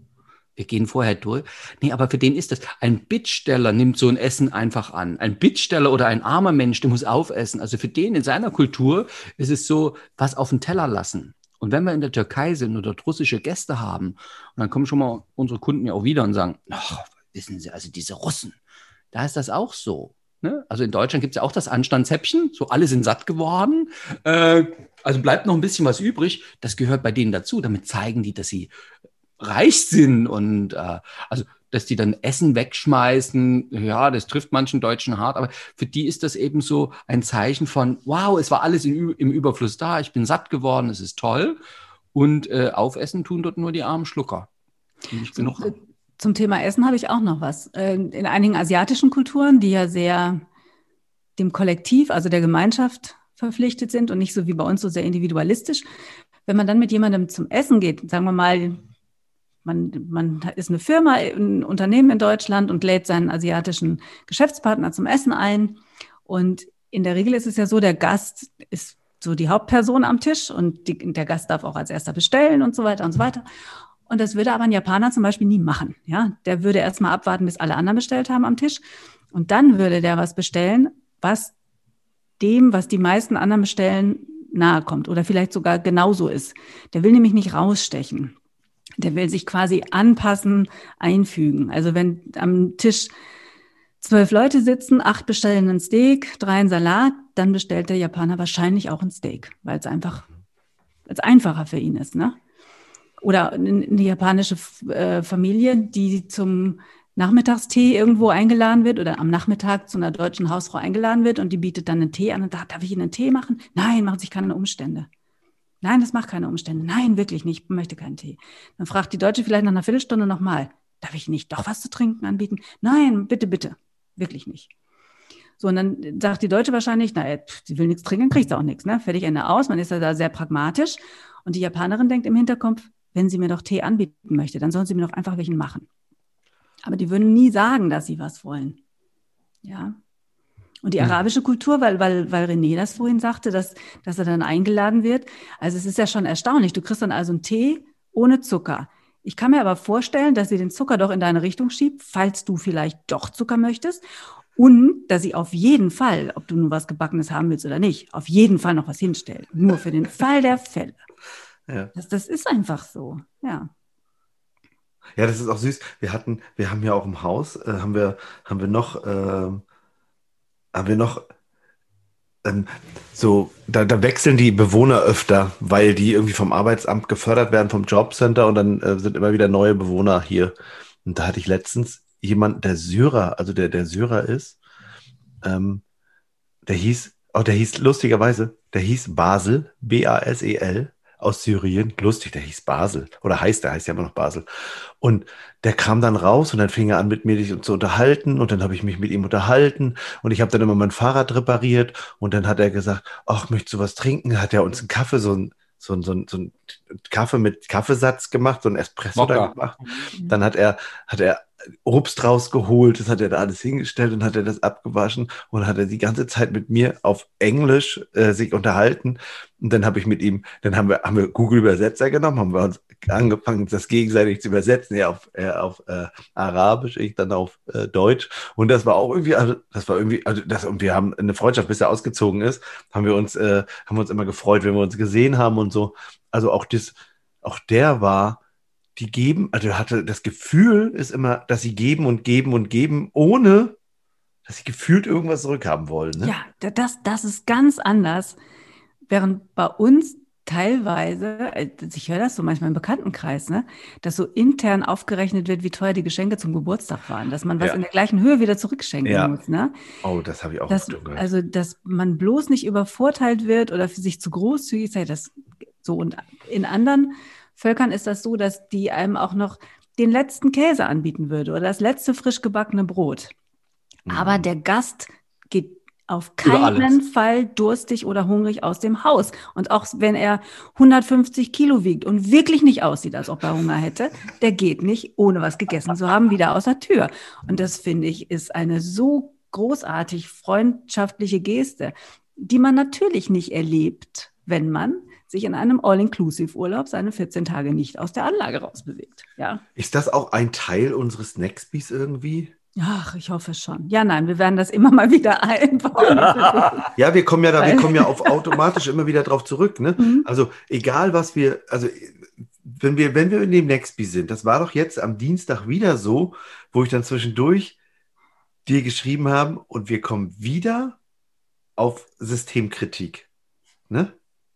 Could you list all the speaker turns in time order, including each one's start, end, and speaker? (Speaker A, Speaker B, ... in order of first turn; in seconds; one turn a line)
Speaker A: 0.6-18.6
Speaker A: 19.1-28.7
Speaker A: 29.4-41.6
Speaker A: 42.1-44.5
Speaker A: 45.1-45.7
Speaker B: 45.4-50.4
Speaker B: 51.4-55.9
Speaker B: 56.5-58.8
Speaker B: 59.6-73.4
Speaker B: 74.1-78.8
Speaker B: 79.3-81.5
Speaker B: 82.4-88.3
Speaker B: 89.0-93.1
Speaker B: 94.0-100.3
Speaker B: 101.1-102.4
Speaker B: 103.2-115.1
Speaker B: 115.8-124.7
Speaker B: 125.6-135.9
Speaker B: 136.8-138.8
Speaker B: 139.6-140.0
Speaker B: 140.8-154.0
Speaker B: 154.6-161.0
Speaker B: 161.9-163.7
Speaker C: 165.2-169.6
Speaker C: 170.7-171.2
Speaker C: 172.4-180.5
Speaker C: 181.0-184.6
Speaker C: 185.4-185.8
Speaker C: 186.7-238.4
Speaker A: 209.2-209.5
Speaker C: 239.0-243.8
Speaker C: 244.4-246.3
Speaker B: 246.2-248.4
Speaker B: 249.1-259.7
Speaker C: 259.0-259.3
Speaker C: 260.0-261.3
Speaker B: 260.7-273.3
Speaker C: 274.1-274.4
Speaker B: 274.1-299.6
Speaker A: 276.4-276.9
Speaker C: 299.8-302.5
Speaker B: 302.8-306.9
Speaker A: 306.0-306.8
Speaker C: 306.9-317.8
Speaker B: 307.6-308.3
Speaker B: 310.0-310.2
Speaker C: 318.6-321.0
Speaker C: 321.8-323.3
Speaker C: 323.9-324.1